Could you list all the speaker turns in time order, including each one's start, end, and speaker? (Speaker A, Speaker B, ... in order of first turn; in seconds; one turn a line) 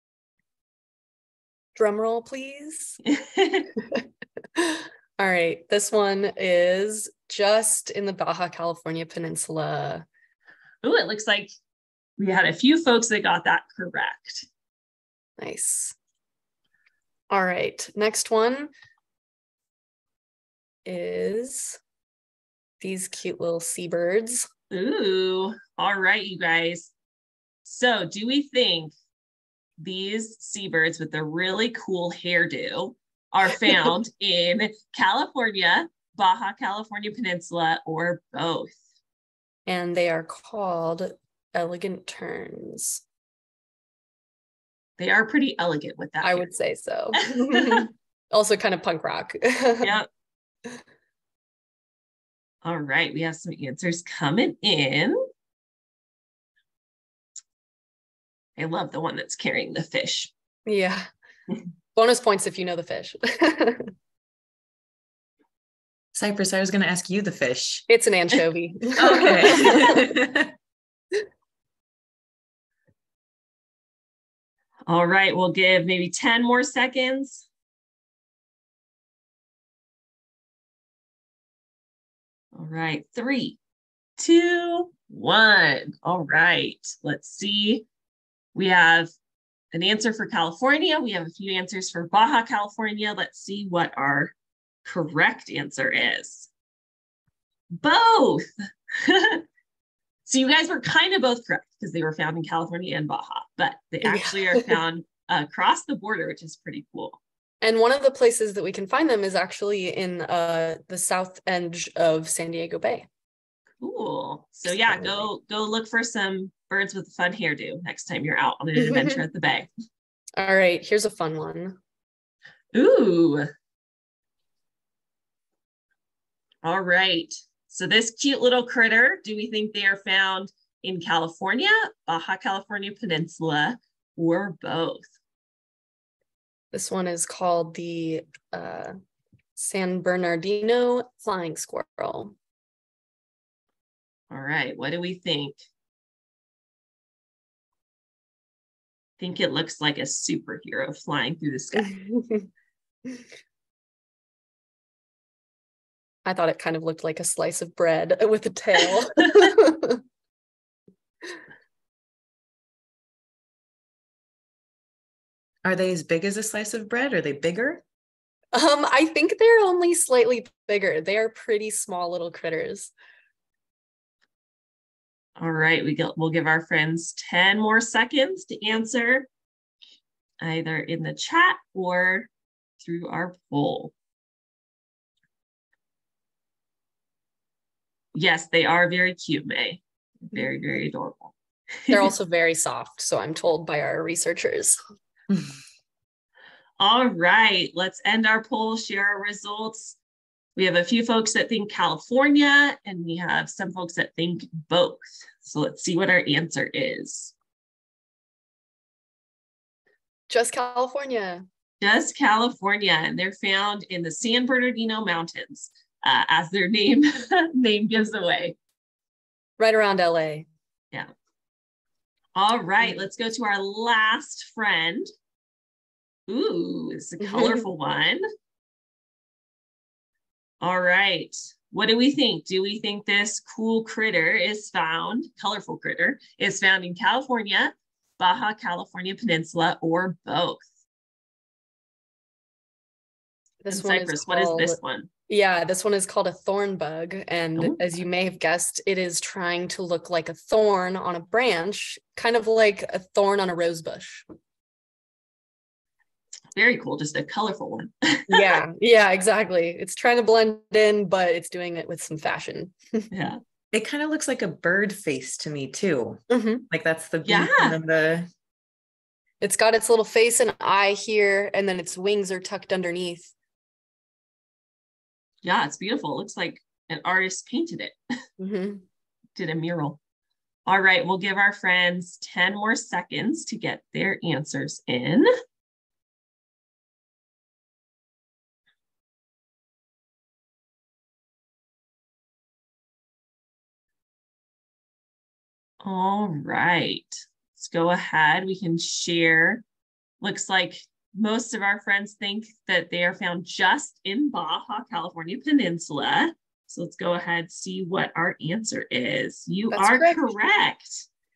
Speaker A: 1.8-3.0
Speaker B: 3.0-3.7
Speaker A: 3.8-10.0
Speaker B: 10.8-11.5
Speaker B: 12.2-14.4
Speaker A: 15.4-15.9
Speaker A: 17.3-18.7
Speaker A: 20.8-21.8
Speaker A: 22.8-24.5
Speaker B: 24.7-26.9
Speaker B: 27.6-28.9
Speaker B: 29.8-38.8
Speaker A: 39.7-43.0
Speaker B: 45.0-46.5
Speaker A: 46.2-50.0
Speaker B: 47.2-47.8
Speaker B: 52.6-55.2
Speaker B: 58.6-60.3
Speaker A: 60.6-61.1
Speaker A: 61.9-63.9
Speaker C: 66.1-67.8
Speaker A: 67.9-70.0
Speaker C: 69.0-70.5
Speaker B: 69.6-70.0
Speaker B: 74.9-77.4
Speaker B: 82.5-83.6
Speaker B: 84.2-87.8
Speaker B: 88.5-89.1
Speaker B: 89.7-94.3
Speaker B: 94.8-96.5
Speaker B: 97.8-99.4
Speaker B: 100.2-107.2
Speaker A: 104.0-104.8
Speaker A: 107.6-113.1
Speaker B: 113.8-119.7
Speaker A: 114.7-115.3
Speaker A: 118.8-119.2
Speaker A: 120.4-121.8
Speaker B: 122.7-123.5
Speaker B: 126.6-135.1
Speaker A: 136.7-138.9
Speaker A: 139.6-142.3
Speaker B: 144.3-145.6
Speaker B: 149.2-152.0
Speaker A: 151.8-152.5
Speaker A: 156.2-160.0
Speaker C: 165.6-167.8
Speaker A: 168.5-172.9
Speaker B: 175.4-179.3
Speaker B: 180.4-182.3
Speaker B: 182.8-183.9
Speaker B: 188.1-191.3
Speaker A: 191.9-194.8
Speaker B: 196.8-200.0
Speaker B: 200.6-207.3
Speaker A: 210.3-211.4
Speaker B: 211.8-218.6
Speaker A: 219.6-220.5
Speaker B: 222.3-225.1
Speaker B: 226.3-228.2
Speaker A: 227.2-227.6
Speaker B: 230.6-240.6
Speaker A: 243.6-254.2
Speaker B: 243.7-245.1
Speaker B: 256.5-258.6
Speaker A: 258.3-263.1
Speaker B: 263.1-263.4
Speaker C: 263.7-268.3
Speaker A: 266.3-266.6
Speaker B: 267.2-267.8
Speaker A: 269.4-273.3
Speaker B: 275.4-278.0
Speaker A: 278.4-278.8
Speaker B: 279.4-280.0
Speaker B: 280.6-285.3
Speaker B: 295.8-299.6
Speaker B: 300.2-311.0
Speaker A: 309.7-310.3